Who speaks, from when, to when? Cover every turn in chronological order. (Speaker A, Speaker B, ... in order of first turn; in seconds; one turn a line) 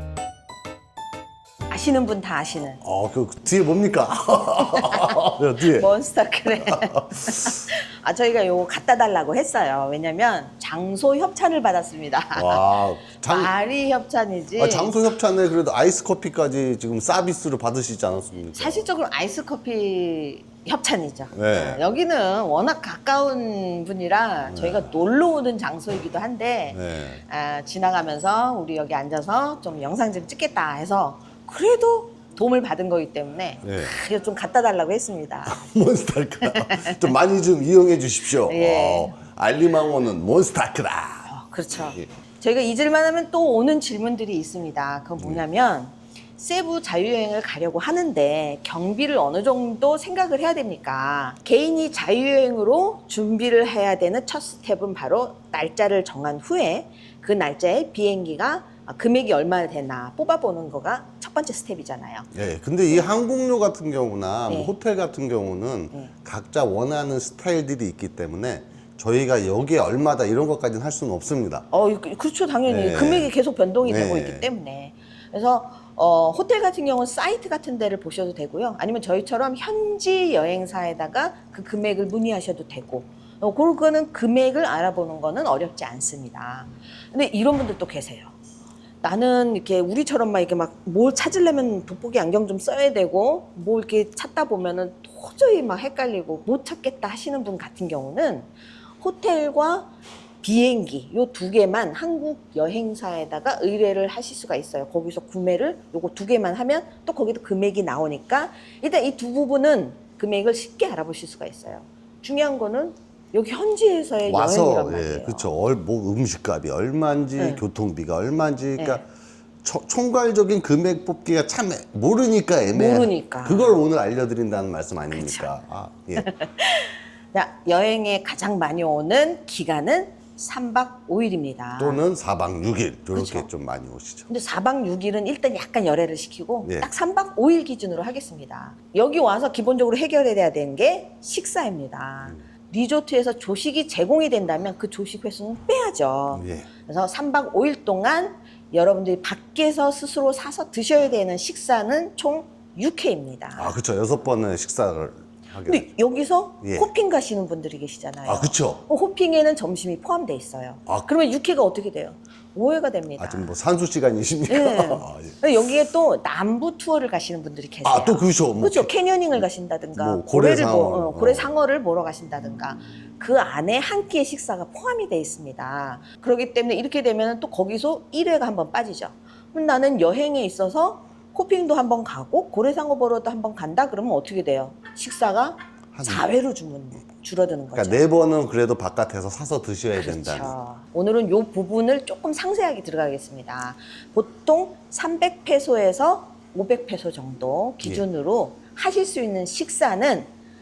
Speaker A: 1.7-2.8
Speaker B: 2.8-5.9
Speaker A: 4.5-5.2
Speaker A: 5.7-12.7
Speaker B: 6.5-7.6
Speaker B: 12.4-13.5
Speaker A: 13.2-15.0
Speaker B: 14.6-18.9
Speaker A: 18.6-35.6
Speaker B: 21.3-21.8
Speaker B: 24.5-24.9
Speaker B: 26.7-27.2
Speaker B: 33.6-34.0
Speaker B: 35.5-41.3
Speaker A: 36.5-37.1
Speaker A: 38.4-39.2
Speaker A: 41.3-62.3
Speaker B: 45.2-45.4
Speaker B: 62.3-71.7
Speaker A: 64.5-64.7
Speaker A: 71.7-88.4
Speaker B: 72.7-73.3
Speaker B: 73.8-74.5
Speaker A: 89.0-98.5
Speaker A: 99.0-99.9
Speaker A: 100.4-115.5
Speaker B: 114.3-119.1
Speaker A: 117.4-117.6
Speaker B: 119.6-126.3
Speaker A: 122.7-123.8
Speaker A: 125.1-125.5
Speaker A: 126.2-132.0
Speaker B: 131.8-134.3
Speaker A: 133.1-133.5
Speaker A: 134.3-153.8
Speaker B: 136.6-136.9
Speaker B: 146.3-146.7
Speaker B: 153.6-155.9
Speaker A: 155.7-163.5
Speaker B: 156.6-156.9
Speaker B: 158.2-158.8
Speaker B: 163.2-165.4
Speaker A: 164.5-188.0
Speaker B: 167.8-169.4
Speaker B: 170.0-171.6
Speaker B: 185.9-186.3
Speaker B: 187.7-190.5
Speaker A: 190.0-200.3